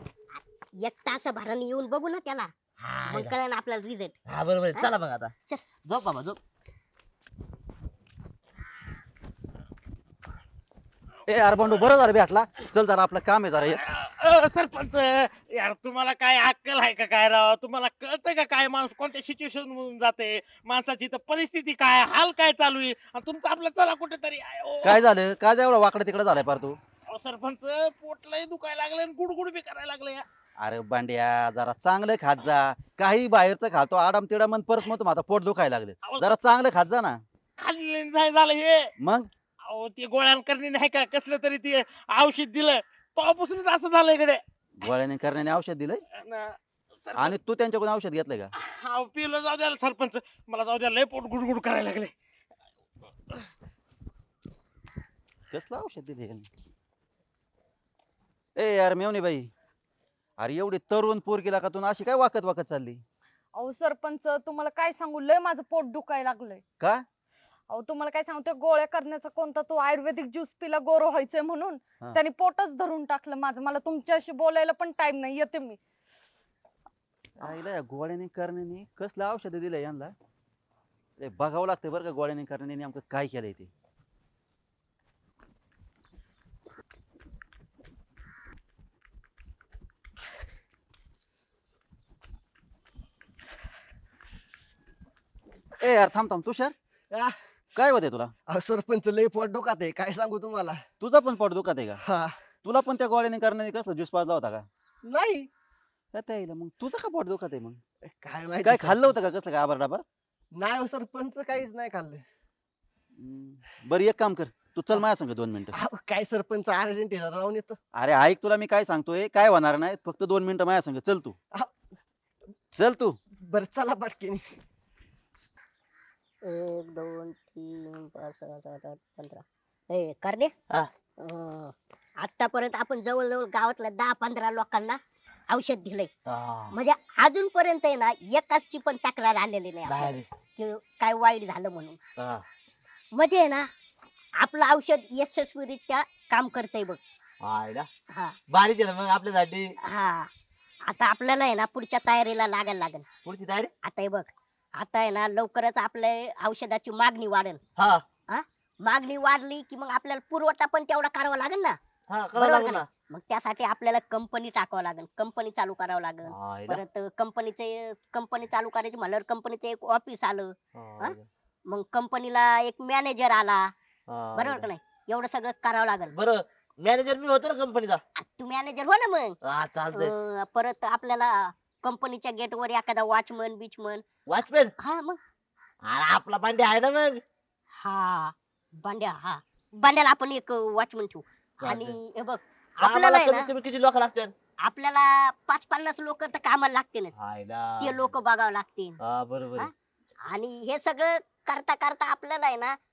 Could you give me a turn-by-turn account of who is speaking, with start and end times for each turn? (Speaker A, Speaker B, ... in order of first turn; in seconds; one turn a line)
Speaker A: 0.3-2.5
Speaker B: 2.8-3.3
Speaker A: 3.1-4.2
Speaker B: 4.3-5.3
Speaker B: 5.8-6.4
Speaker C: 11.3-13.8
Speaker D: 13.7-25.0
Speaker C: 24.8-26.8
Speaker D: 27.1-30.2
Speaker C: 30.6-37.2
Speaker D: 36.0-36.3
Speaker D: 37.6-38.9
Speaker C: 39.0-39.3
Speaker D: 39.7-44.4
Speaker C: 44.8-46.0
Speaker D: 46.2-47.3
Speaker C: 47.2-48.5
Speaker D: 48.6-52.1
Speaker C: 55.5-56.5
Speaker C: 58.6-59.5
Speaker C: 60.4-63.0
Speaker E: 63.6-66.6
Speaker E: 67.7-75.8
Speaker C: 77.4-80.1
Speaker C: 81.2-83.7
Speaker C: 95.8-96.7
Speaker C: 97.8-98.3
Speaker F: 98.5-100.8
Speaker C: 101.0-102.0
Speaker F: 102.0-102.4
Speaker C: 102.7-104.6
Speaker F: 105.0-105.5
Speaker C: 106.1-107.8
Speaker F: 108.2-109.1
Speaker C: 108.6-110.0
Speaker F: 110.5-112.2
Speaker C: 113.2-115.8
Speaker F: 115.7-117.8
Speaker C: 118.0-121.3
Speaker C: 122.8-123.2
Speaker F: 123.4-124.5
Speaker A: 126.5-130.5
Speaker A: 131.2-135.0
Speaker A: 135.5-136.1
Speaker B: 136.3-136.7
Speaker A: 136.7-142.0
Speaker B: 139.9-140.3
Speaker B: 142.2-142.4
Speaker A: 143.2-143.7
Speaker A: 144.4-147.0
Speaker B: 147.4-147.9
Speaker B: 148.5-149.7
Speaker A: 149.8-150.3
Speaker A: 150.9-153.1
Speaker B: 153.2-153.7
Speaker A: 153.8-157.6
Speaker B: 157.8-158.0
Speaker A: 158.3-161.8
Speaker B: 162.1-162.9
Speaker A: 162.3-171.2
Speaker B: 166.3-166.8
Speaker B: 170.8-171.3
Speaker A: 171.7-173.7
Speaker B: 174.1-174.7
Speaker A: 174.4-176.2
Speaker B: 176.1-178.0
Speaker A: 178.2-179.4
Speaker B: 179.4-180.1
Speaker A: 179.9-184.0
Speaker B: 184.3-184.7
Speaker A: 184.8-185.2
Speaker B: 185.8-187.2
Speaker A: 187.8-193.5
Speaker B: 191.6-191.9
Speaker B: 192.8-194.3
Speaker A: 194.6-197.1
Speaker B: 197.2-198.1
Speaker A: 197.8-199.0
Speaker B: 199.0-199.7
Speaker A: 200.3-202.8